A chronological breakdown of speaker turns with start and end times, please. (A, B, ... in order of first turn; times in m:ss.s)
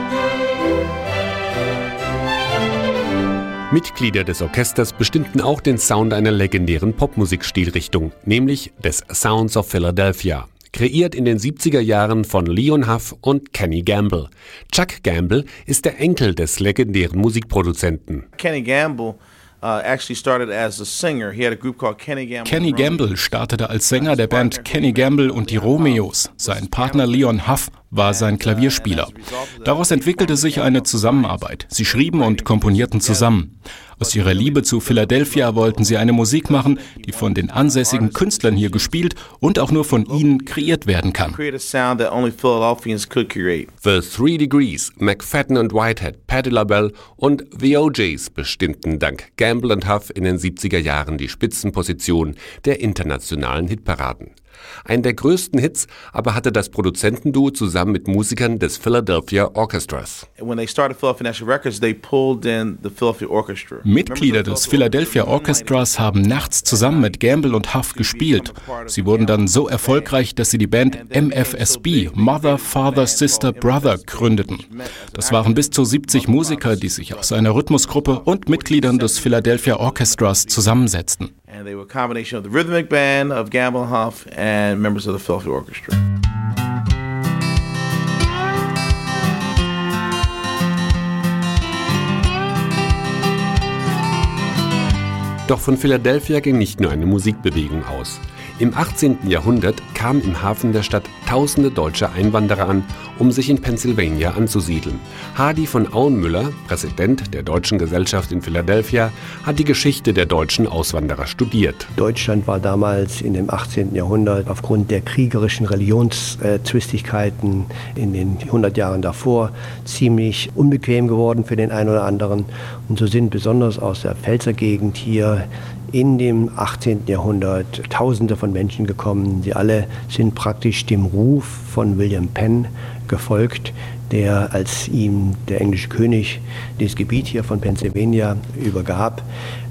0:03.7-0:18.2 A
0:18.3-0:33.2 B
0:22.4-0:41.4 C
0:34.0-0:39.0 B
0:39.6-0:43.7 B
0:43.8-0:54.3 A
0:54.8-1:00.3 A
1:00.4-1:10.2 B
1:03.8-1:21.3 C
1:10.8-1:21.0 B
1:21.5-1:26.0 B
1:35.4-1:51.9 A
1:52.0-2:19.2 D